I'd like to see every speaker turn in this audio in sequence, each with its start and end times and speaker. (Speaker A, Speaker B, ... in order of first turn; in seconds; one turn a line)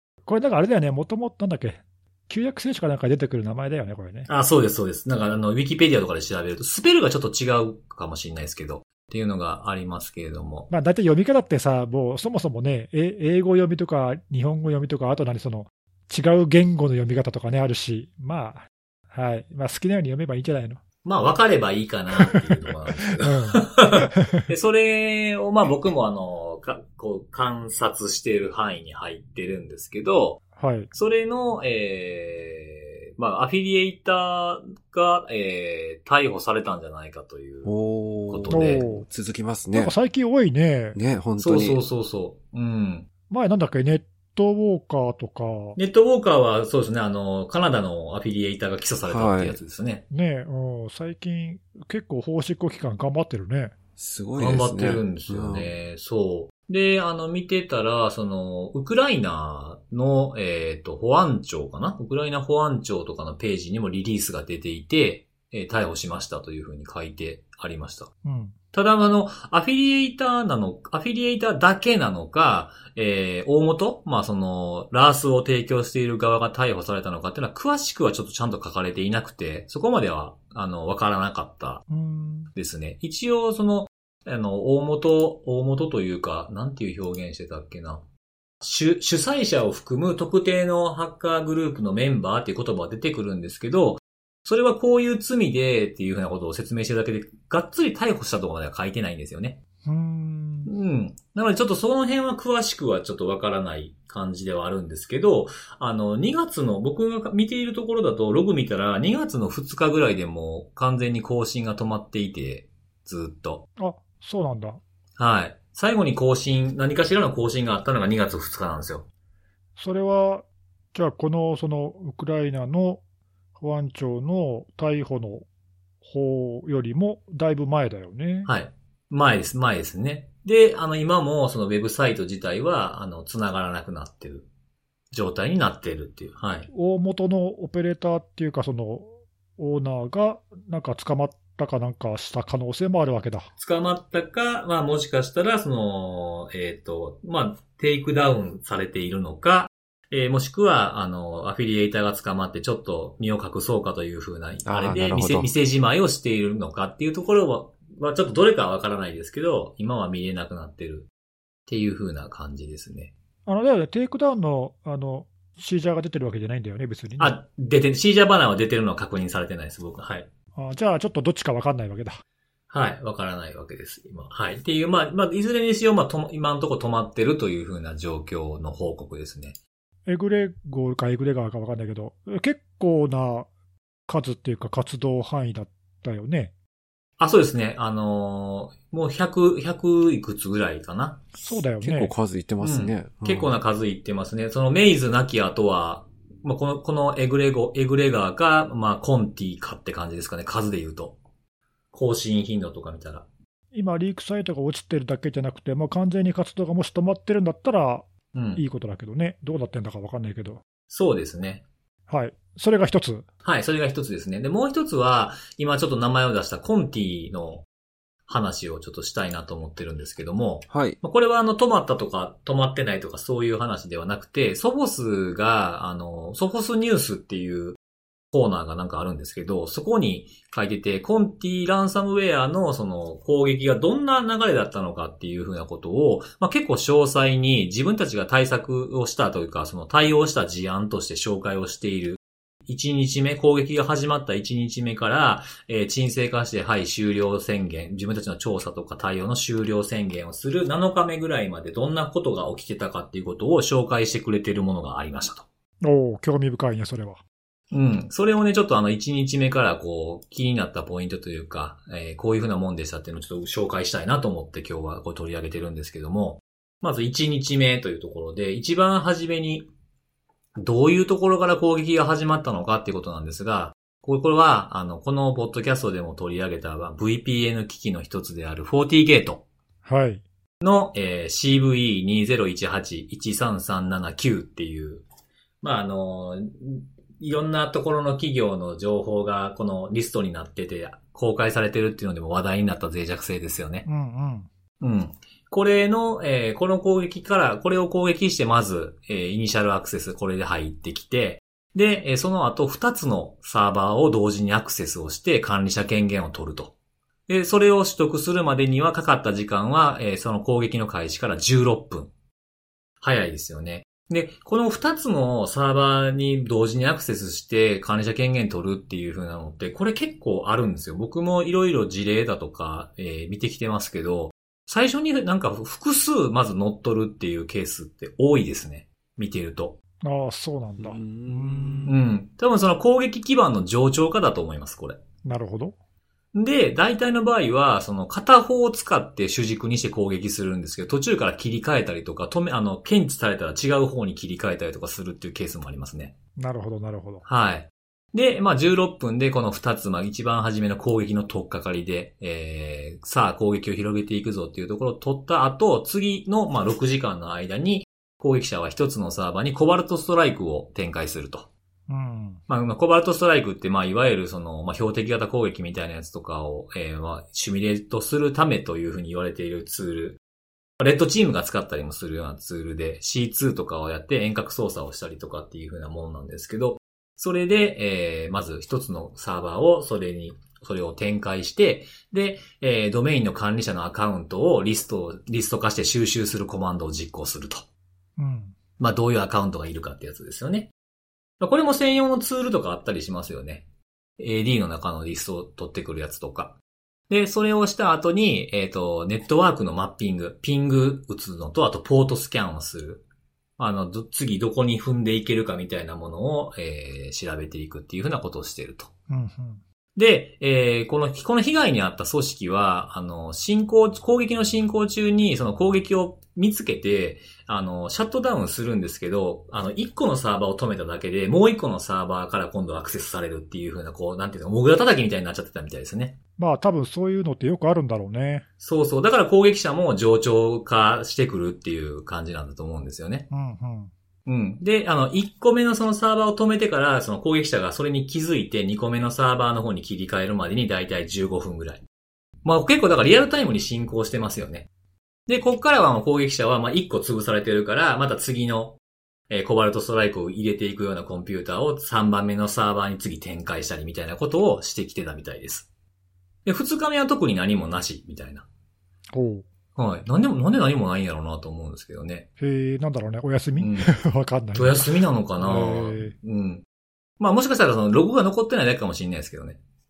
Speaker A: 0.2-4.3
Speaker B: 4.3-10.7
Speaker A: 10.7-20.8
Speaker B: 21.0-30.4
Speaker A: 23.2-24.4
Speaker A: 30.6-30.9
Speaker B: 30.9-37.7
Speaker C: 37.6-39.9
Speaker B: 38.3-38.9
Speaker A: 38.5-39.0
Speaker A: 39.7-41.0
Speaker C: 40.9-41.8
Speaker B: 41.4-43.1
Speaker A: 43.3-45.8
Speaker B: 45.8-50.0
Speaker C: 49.0-49.6
Speaker A: 50.1-53.7
Speaker C: 54.0-55.7
Speaker B: 54.4-68.1
Speaker A: 68.2-68.5
Speaker B: 68.7-81.8
Speaker A: 81.9-82.5
Speaker B: 82.5-88.0
Speaker B: 88.6-99.6
Speaker A: 99.8-100.7
Speaker B: 100.7-113.6
Speaker A: 113.8-114.8
Speaker B: 115.2-119.0
Speaker A: 119.8-123.0
Speaker A: 123.6-125.5
Speaker A: 126.0-128.5
Speaker B: 128.4-134.5
Speaker B: 135.1-136.7
Speaker A: 136.7-143.5
Speaker B: 143.6-161.1
Speaker C: 154.7-155.5
Speaker B: 161.7-163.1
Speaker A: 163.4-167.4
Speaker B: 167.2-170.3
Speaker A: 170.6-172.2
Speaker B: 172.7-179.5
Speaker A: 180.1-183.5
Speaker A: 184.1-186.5
Speaker B: 187.2-191.2
Speaker A: 191.4-192.1
Speaker C: 191.4-193.5
Speaker B: 192.6-201.2
Speaker B: 201.9-203.2
Speaker A: 203.7-210.6
Speaker B: 208.3-208.6
Speaker B: 210.9-211.6
Speaker A: 212.1-213.2
Speaker B: 213.4-217.6
Speaker B: 218.3-227.8
Speaker C: 220.7-221.0
Speaker B: 228.3-255.4
Speaker A: 255.8-257.2
Speaker B: 257.7-269.7
Speaker B: 270.6-279.4
Speaker A: 279.8-280.2
Speaker B: 280.6-285.0
Speaker B: 285.6-293.9
Speaker A: 293.8-294.5
Speaker B: 294.8-306.7
Speaker B: 307.3-312.1
Speaker B: 313.0-329.8
Speaker A: 330.0-331.9
Speaker C: 330.8-332.0
Speaker B: 331.9-335.0
Speaker A: 335.2-335.7
Speaker B: 336.3-346.1
Speaker A: 346.4-347.2
Speaker B: 347.2-361.5
Speaker A: 361.9-362.4
Speaker B: 362.5-370.2
Speaker B: 370.8-387.6
Speaker A: 388.2-388.6
Speaker B: 388.8-390.7
Speaker B: 391.4-393.6
Speaker B: 394.2-396.6
Speaker B: 397.1-403.0
Speaker B: 403.6-408.9
Speaker A: 409.1-409.6
Speaker B: 409.9-426.1
Speaker A: 426.4-428.4
Speaker B: 428.6-433.3
Speaker A: 433.3-433.9
Speaker B: 434.3-441.8
Speaker B: 442.4-444.7
Speaker B: 445.3-448.8
Speaker B: 449.3-455.7
Speaker B: 456.4-458.4
Speaker A: 459.1-459.4
Speaker B: 459.8-462.2
Speaker A: 462.4-466.1
Speaker B: 463.6-463.9
Speaker B: 464.5-466.6
Speaker B: 467.2-469.6